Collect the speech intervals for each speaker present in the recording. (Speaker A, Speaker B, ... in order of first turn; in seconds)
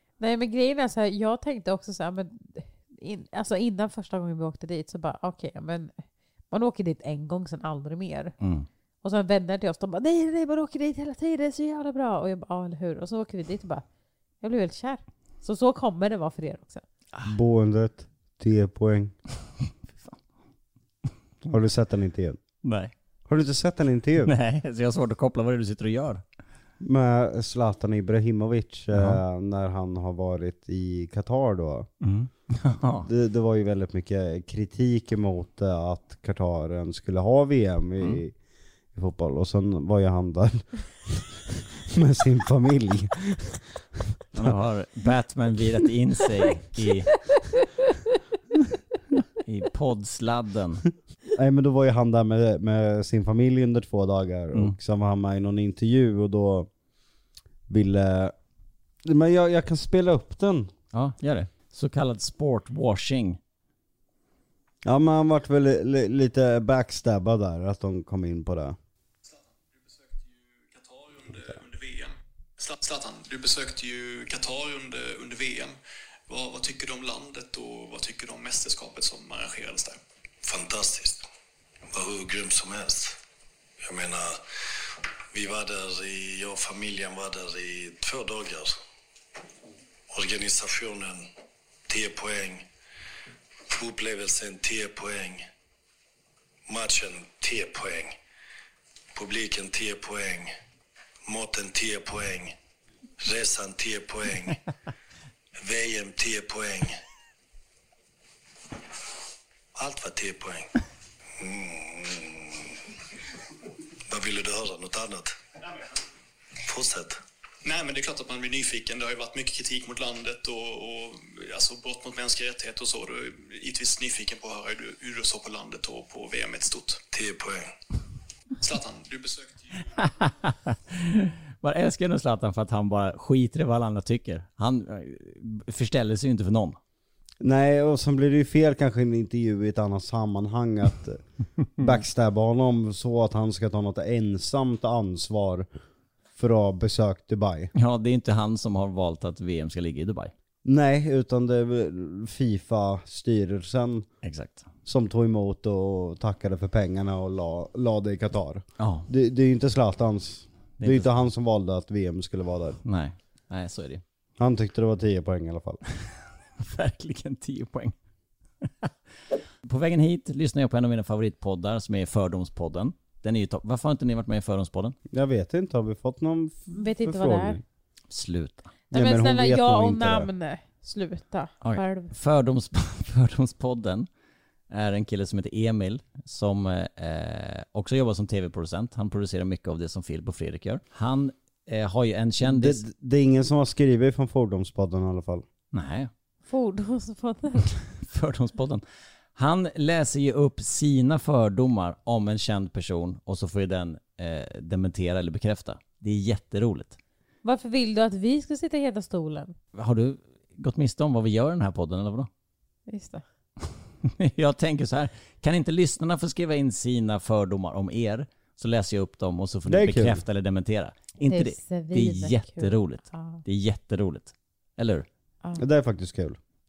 Speaker A: 0.2-8.3, 9.0-13.8, 14.4-16.8, 176.7-177.6, 178.9-182.1, 196.5-197.8, 207.4-209.6, 212.9-213.2, 221.2-223.4
Speaker B: 8.4-8.7, 22.6-22.9, 24.2-26.2, 28.9-29.2, 32.0-33.1, 44.4-47.1, 49.4-50.9, 60.9-63.4, 130.0-136.8, 147.8-150.3, 154.2-154.7, 158.8-159.1, 160.8-161.1, 162.8-164.0, 165.9-167.9, 168.6-168.9, 169.6-175.0, 178.1-178.7, 181.6-184.1, 184.7-192.8, 195.7-196.1, 198.0-198.8, 199.4-207.0, 209.8-212.3, 214.0-225.1
Speaker C: 17.2-19.1, 21.5-22.4, 23.3-24.3, 26.8-31.9, 33.0-38.4, 38.9-44.6, 51.4-56.7, 57.7-58.3, 59.0-60.7, 64.8-68.8, 137.4-141.2, 141.8-145.7, 146.4-147.7, 150.7-154.1, 154.9-162.8, 164.4-165.8, 175.1-177.6, 178.9-180.3, 192.4-195.5, 219.7-220.2, 225.6-226.4
Speaker D: 69.2-75.8, 76.3-80.0, 117.6-127.0, 128.6-129.9
Speaker E: 80.4-81.2, 81.9-83.2, 83.8-84.4, 85.3-88.8, 90.1-91.3, 91.9-92.7, 93.7-95.4, 96.7-98.2, 99.2-100.5, 101.3-102.5, 103.2-104.6, 105.6-106.9, 109.8-110.7, 111.4-112.8, 114.1-115.4, 116.7-117.2, 127.1-127.7